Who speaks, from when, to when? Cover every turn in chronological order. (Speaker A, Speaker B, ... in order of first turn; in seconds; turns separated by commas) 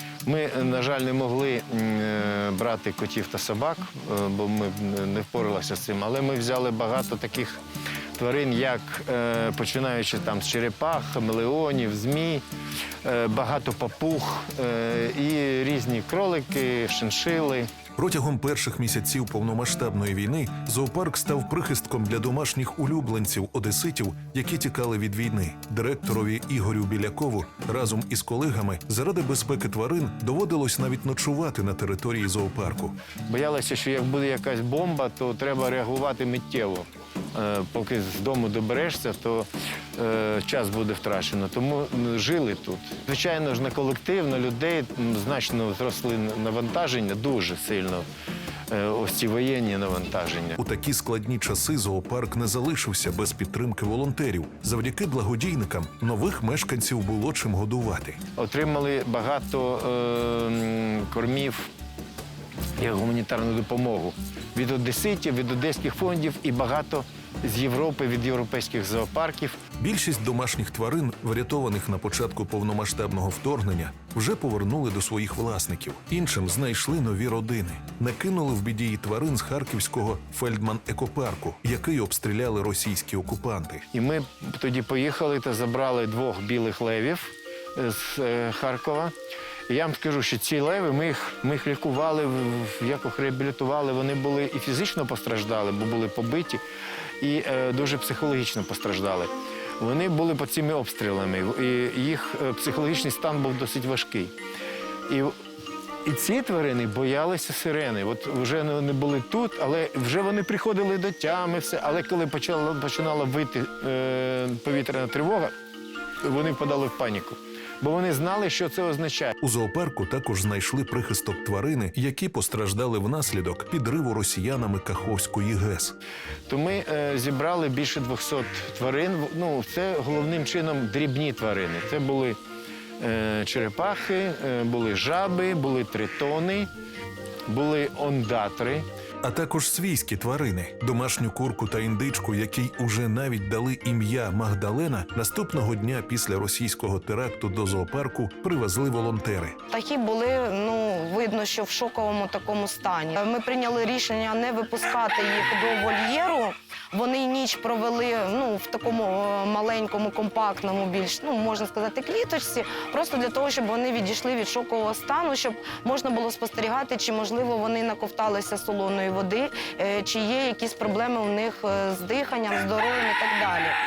Speaker A: 0.2-7.6, Speaker A: 8.2-12.4, Speaker A: 13.0-17.7, Speaker B: 17.9-33.0, Speaker A: 33.3-48.1, Speaker A: 48.7-50.6, Speaker B: 50.6-58.2, Speaker A: 58.4-61.7, Speaker A: 62.8-69.6, Speaker B: 69.8-83.8, Speaker A: 83.9-89.1, Speaker A: 89.7-96.6, Speaker A: 97.2-104.3, Speaker A: 105.1-105.3, Speaker A: 106.0-115.5, Speaker A: 116.2-119.3, Speaker B: 119.4-126.0, Speaker A: 126.5-132.4, Speaker A: 133.0-136.7, Speaker A: 137.5-138.8, Speaker B: 139.2-149.6, Speaker C: 149.7-173.8